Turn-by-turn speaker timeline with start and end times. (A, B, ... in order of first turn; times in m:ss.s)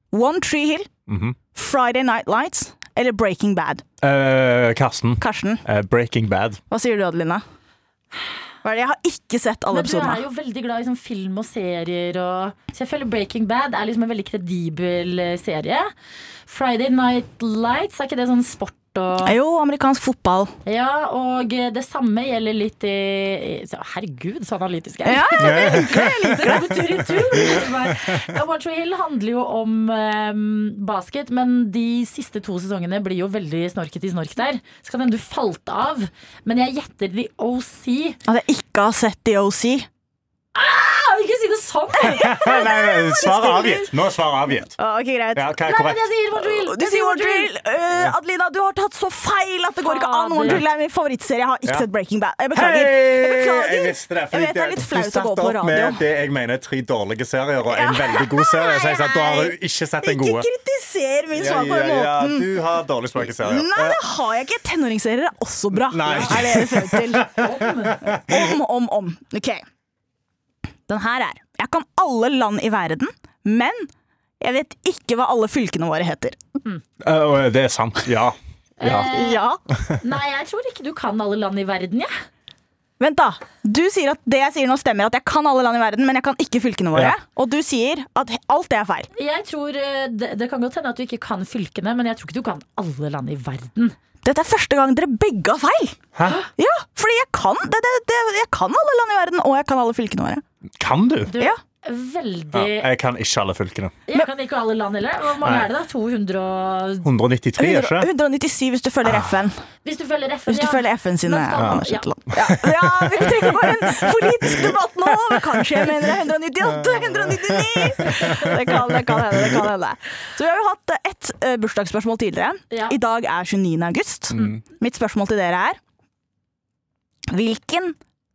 0:00.1-0:00.9 A
0:01.1-0:01.4 B
0:01.5-0:03.8 A
0:04.0-0:06.6 B
0:05.2-0:05.6 A
0:06.7-0:07.4 A
0:08.6-0:10.2 A
0:09.7-0:15.9 C
0:16.5-0:19.4 C
0:19.2-0:20.5 A
0:20.7-0:38.2 C
0:25.1-0:26.8 A
0:25.4-0:28.2 B
0:38.3-0:39.9 A
0:40.6-0:42.6 C
0:42.0-0:44.0 A
0:42.0-0:44.7 B
0:44.7-0:45.6 A
0:45.4-0:46.1 B
0:45.6-0:47.5 C
0:46.4-0:56.0 A
0:49.8-0:50.6 C
0:52.5-1:00.5 B
0:57.6-1:02.5 A
1:01.3-1:04.0 B
1:03.3-1:07.4 A
1:05.9-1:08.5 B
1:06.1-1:06.3 C
1:07.3-1:08.0 C
1:08.1-1:09.6 A
1:10.9-1:13.9 A
1:14.4-1:16.4 A
1:17.0-1:19.1 B
1:18.8-1:19.4 C
1:19.0-1:19.6 A
1:19.7-1:20.0 B
1:20.0-1:22.1 C
1:23.0-1:29.1 A
1:29.1-1:34.0 C
1:34.2-1:36.0 A
1:36.2-1:36.4 B
1:36.6-1:40.4 A
1:40.8-1:41.3 B
1:41.3-1:42.9 C
1:42.5-1:44.0 B
1:44.1-1:47.1 C
1:45.4-1:45.7 B
1:47.0-1:48.1 B
1:47.6-1:49.6 A
1:49.1-1:49.3 B
1:49.8-1:52.1 C
1:50.5-2:05.8 A
1:51.6-1:54.7 B
1:55.3-1:55.9 B
1:56.9-1:59.4 B
2:02.7-2:03.0 C
2:04.3-2:04.6 B
2:07.3-2:08.0 A